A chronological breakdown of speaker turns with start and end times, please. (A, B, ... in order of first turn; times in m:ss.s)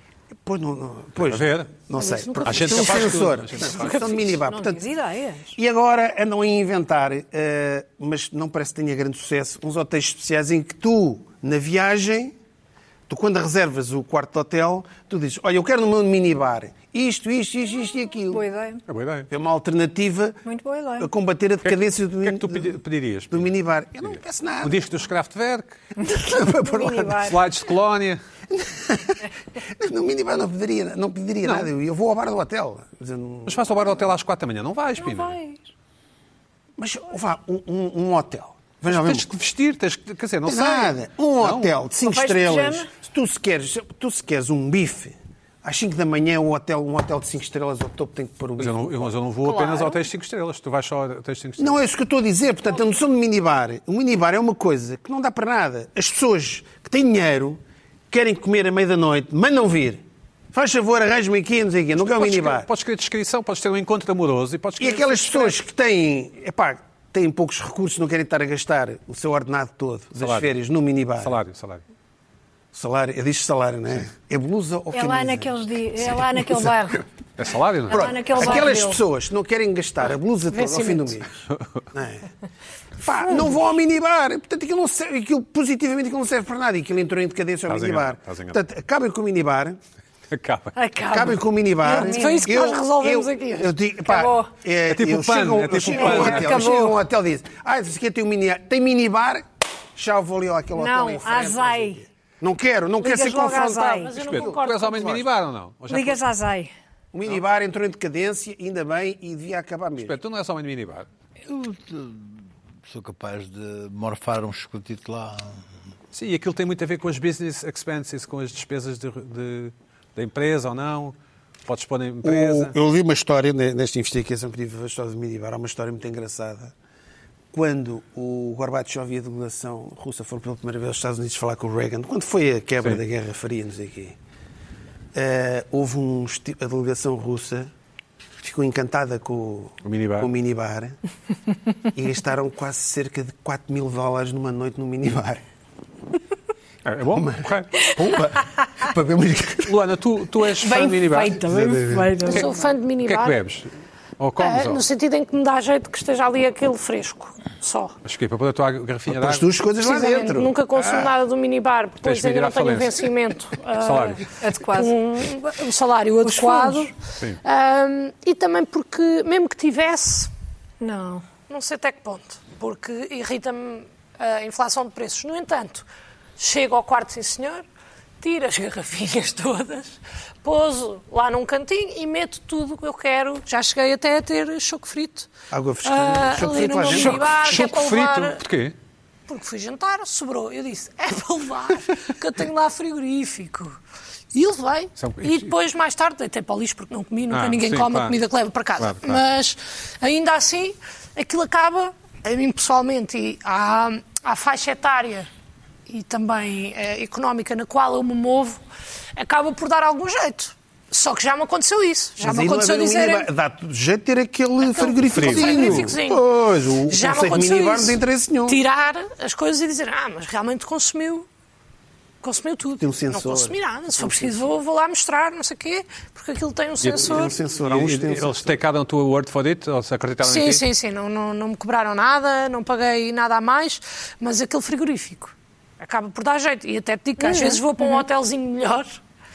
0:00.4-0:04.8 A
0:01.2-0:01.7 B
0:02.0-0:04.2 C
0:02.4-0:04.1 B
0:04.4-0:05.6 D
0:05.6-0:12.4 A
0:13.1-0:18.4 A
0:18.3-0:18.8 D
0:18.9-0:19.3 B
0:19.3-0:20.4 A
0:20.4-0:21.1 D
0:21.0-0:24.8 A
0:21.6-0:23.5 B
0:24.0-0:25.8 B
0:26.0-0:27.3 A
0:26.6-0:27.4 D
0:27.2-0:28.2 B
0:28.5-0:33.8 A
0:33.5-0:35.4 B
0:35.0-0:35.7 D
0:36.8-0:39.3 A
0:38.9-0:41.8 B
0:40.5-0:49.1 A
0:42.0-0:42.9 D
0:48.6-0:51.8 B
0:49.4-0:50.0 D
0:51.6-1:02.7 A
1:02.0-1:05.6 B
1:04.8-1:11.4 A
1:10.2-1:10.5 B
1:11.2-1:11.8 B
1:12.7-1:16.7 A
1:14.9-1:17.0 D
1:17.4-1:18.2 B
1:17.9-1:19.0 D
1:17.9-1:22.3 A
1:20.5-1:21.2 C
1:21.5-1:21.8 B
1:23.0-1:29.8 A
1:27.7-1:28.6 B
1:30.3-1:30.8 B
1:30.8-1:32.6 D
1:31.1-1:45.2 A
1:31.8-1:33.8 C
1:34.0-1:34.5 D
1:34.9-1:36.8 B
1:35.9-1:37.0 D
1:40.8-1:42.0 D
1:43.0-1:44.1 D
1:43.5-1:45.2 C
1:44.2-1:46.2 B
1:45.9-1:46.7 D
1:47.1-1:50.2 A
1:50.0-1:51.1 B
1:51.5-1:55.6 E
1:56.1-2:02.8 B
2:02.2-2:06.7 A
2:07.5-2:14.2 A
2:15.1-2:17.7 A
2:18.4-2:21.0 A
2:19.8-2:20.3 B
2:21.9-2:25.4 A
2:26.8-2:28.0 B
2:27.1-2:29.8 A
2:29.6-2:32.5 B
2:30.6-2:32.5 D
2:31.5-2:32.1 A
2:32.3-2:33.4 C
2:33.0-2:34.8 B
2:34.4-2:38.0 C
2:38.0-2:39.5 B
2:39.1-2:40.6 A
2:39.8-2:50.3 C
2:42.0-2:43.0 B
2:43.8-2:44.2 B
2:44.4-2:45.0 D
2:46.2-2:46.9 D
2:50.8-2:51.3 D
2:51.5-2:55.9 C
2:56.4-2:57.6 C
2:58.2-3:05.3 C
3:05.5-3:07.4 A
3:05.8-3:08.4 C
3:06.9-3:08.8 B
3:09.3-3:13.8 C
3:14.3-3:25.3 C
3:15.0-3:15.5 B
3:17.3-3:18.2 B
3:18.8-3:19.2 B
3:25.9-3:28.6 C
3:29.2-3:33.3 C
3:32.2-3:38.6 A
3:34.6-3:36.3 C
3:35.1-3:35.9 B
3:36.9-3:41.3 C
3:42.2-3:47.4 C
3:42.8-3:44.4 A
3:46.8-3:50.6 B
3:47.0-3:48.6 A
3:50.2-3:59.0 C
3:57.2-3:58.0 D